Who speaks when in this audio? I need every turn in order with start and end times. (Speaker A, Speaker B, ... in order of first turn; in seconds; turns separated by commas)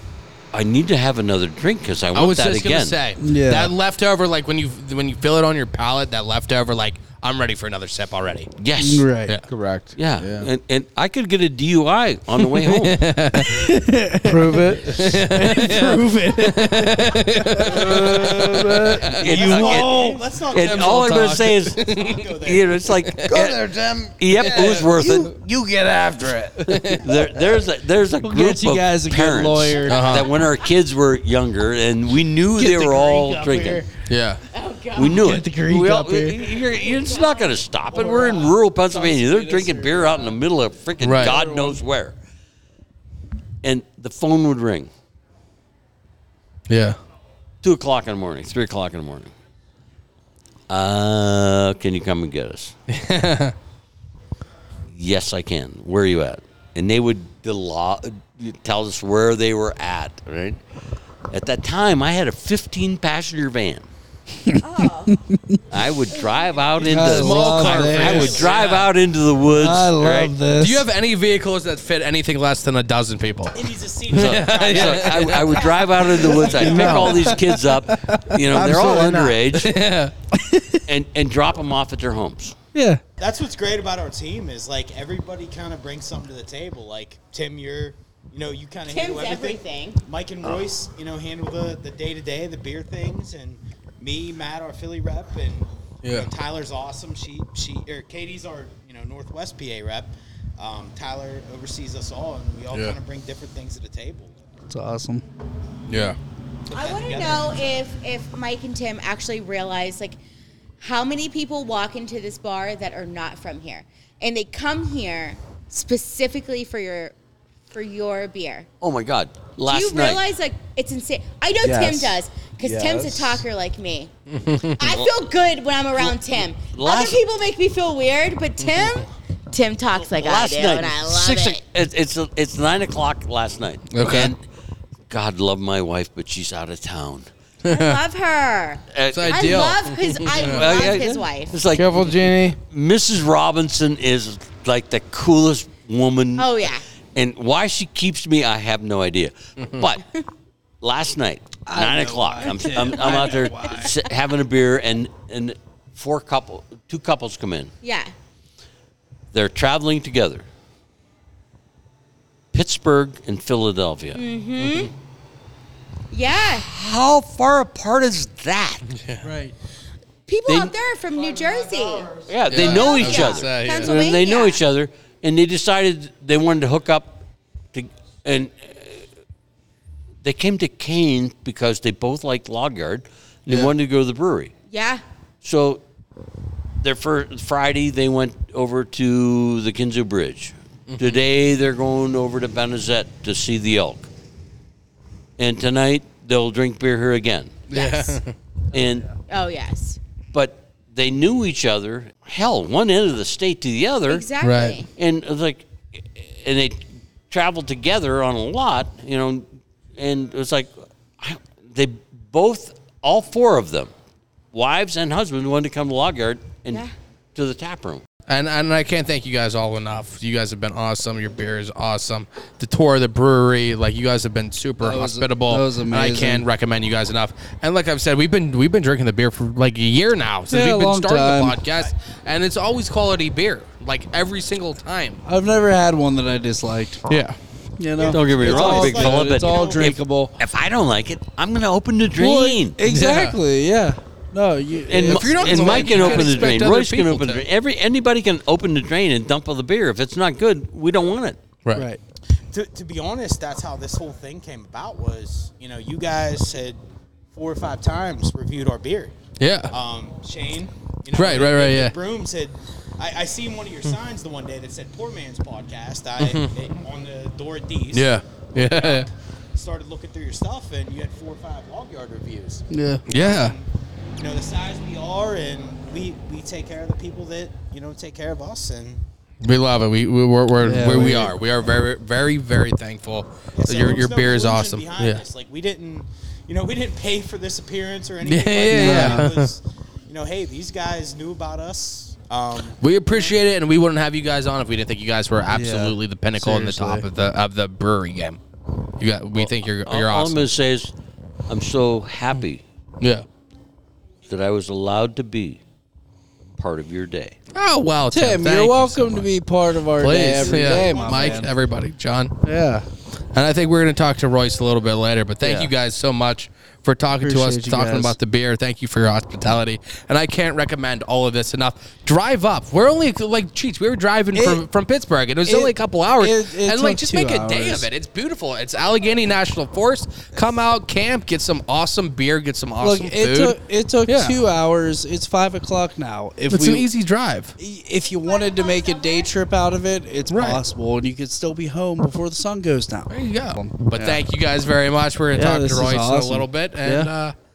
Speaker A: 0.5-3.0, Speaker B: 2.1-8.5, Speaker C: 3.2-3.7, Speaker A: 8.6-9.1, Speaker C: 8.8-9.3, Speaker D: 9.5-10.5, Speaker A: 9.9-13.0, Speaker B: 12.4-13.7, Speaker C: 13.4-20.3, Speaker D: 14.2-15.1, Speaker B: 14.9-18.7, Speaker D: 17.6-19.4, Speaker A: 19.0-23.6, Speaker E: 19.2-22.8, Speaker B: 20.6-22.2, Speaker D: 23.2-27.6, Speaker A: 24.2-25.3, Speaker B: 26.6-27.1, Speaker A: 26.9-33.9, Speaker C: 28.2-30.2, Speaker F: 29.7-30.7, Speaker B: 29.9-30.3, Speaker C: 32.6-33.9, Speaker B: 34.1-34.4, Speaker F: 34.5-35.2, Speaker A: 34.9-42.2, Speaker C: 35.0-36.5, Speaker F: 36.4-38.2, Speaker C: 37.9-40.4, Speaker B: 41.0-41.4, Speaker C: 41.2-41.8, Speaker A: 43.6-44.9, Speaker B: 46.7-47.0, Speaker A: 47.6-49.3, Speaker A: 50.7-52.7, Speaker B: 52.9-53.5, Speaker A: 54.9-60.6, Speaker A: 61.3-63.9, Speaker F: 64.6-65.2, Speaker C: 65.1-65.6, Speaker A: 65.7-70.3, Speaker F: 66.1-66.7, Speaker C: 66.8-68.5, Speaker E: 66.8-68.9, Speaker B: 67.0-68.5, Speaker C: 69.5-70.9, Speaker B: 70.5-76.3, Speaker E: 73.5-77.4, Speaker A: 74.1-79.7, Speaker F: 75.6-75.9, Speaker C: 76.2-78.2, Speaker D: 76.6-77.3, Speaker F: 76.6-76.9, Speaker D: 78.4-79.5, Speaker B: 79.5-80.1, Speaker C: 80.3-80.8, Speaker A: 80.9-82.5, Speaker C: 82.7-83.0, Speaker E: 83.2-104.3, Speaker F: 88.8-90.0, Speaker B: 96.0-96.3, Speaker C: 104.7-105.2, Speaker B: 105.9-106.2, Speaker E: 106.7-107.8, Speaker F: 106.7-110.2, Speaker F: 110.8-117.1, Speaker F: 117.7-118.7, Speaker A: 118.8-120.2, Speaker F: 119.7-124.1, Speaker D: 121.6-123.4, Speaker B: 124.3-124.8, Speaker F: 124.8-131.6, Speaker A: 124.8-125.1, Speaker A: 126.0-127.2, Speaker A: 129.9-134.4, Speaker B: 133.9-134.3, Speaker A: 135.1-137.3, Speaker B: 137.6-138.0, Speaker F: 137.7-141.6, Speaker A: 138.9-139.7, Speaker B: 139.1-140.8, Speaker A: 140.3-150.0, Speaker D: 141.7-142.6, Speaker F: 146.4-146.8, Speaker A: 150.8-157.7, Speaker C: 151.7-153.9, Speaker F: 157.8-158.1, Speaker A: 159.3-160.4, Speaker A: 162.5-164.2, Speaker F: 164.1-164.9, Speaker B: 164.6-164.9, Speaker F: 166.1-166.7, Speaker A: 166.6-168.8, Speaker B: 168.9-169.3, Speaker C: 169.2-169.5, Speaker F: 170.3-174.6, Speaker A: 170.5-170.7, Speaker A: 172.2-179.0, Speaker B: 172.5-174.0, Speaker A: 180.2-184.5, Speaker F: 184.7-185.0, Speaker A: 185.4-185.8, Speaker A: 186.8-194.1, Speaker B: 190.9-191.2, Speaker A: 195.4-197.7, Speaker B: 197.7-198.3, Speaker F: 197.7-198.2, Speaker A: 198.7-199.1, Speaker F: 199.3-200.0, Speaker A: 200.3-204.3, Speaker F: 204.1-204.9, Speaker B: 204.4-204.8, Speaker A: 204.9-209.4, Speaker A: 210.0-213.9, Speaker A: 214.5-218.0, Speaker F: 216.7-216.9, Speaker B: 218.3-235.2, Speaker C: 224.8-226.5, Speaker C: 230.5-231.6, Speaker C: 235.2-237.0, Speaker B: 237.1-237.4, Speaker C: 237.8-240.3, Speaker E: 237.9-240.1, Speaker A: 238.1-242.8, Speaker C: 242.2-246.6, Speaker B: 242.8-243.4, Speaker A: 244.9-251.4, Speaker B: 245.0-247.4, Speaker C: 251.7-252.0, Speaker E: 252.5-256.8, Speaker E: 257.3-279.0, Speaker B: 259.4-259.7, Speaker B: 261.1-261.9, Speaker B: 266.2-266.6, Speaker B: 267.9-269.1, Speaker C: 272.7-273.0, Speaker B: 273.1-273.5, Speaker B: 279.4-285.2, Speaker C: 280.6-281.3, Speaker E: 283.5-293.3, Speaker B: 288.2-289.5, Speaker C: 288.6-289.3, Speaker B: 292.8-298.4, Speaker C: 295.5-297.1, Speaker B: 299.0-300.5, Speaker A: 299.4-300.9, Speaker A: 301.5-302.6, Speaker B: 303.0-303.2, Speaker A: 304.3-305.6, Speaker A: 306.6-307.4, Speaker B: 307.5-309.3, Speaker C: 308.1-311.5, Speaker B: 309.9-312.3, Speaker F: 310.3-311.5, Speaker C: 312.4-312.9, Speaker B: 313.3-334.4, Speaker C: 315.4-315.7, Speaker C: 317.2-318.1, Speaker C: 324.3-324.6, Speaker C: 325.4-327.9, Speaker C: 332.8-336.9, Speaker B: 336.5-337.5, Speaker C: 337.6-344.2, Speaker F: 338.2-339.3, Speaker B: 340.3-340.6, Speaker B: 343.1-347.3, Speaker C: 345.3-347.1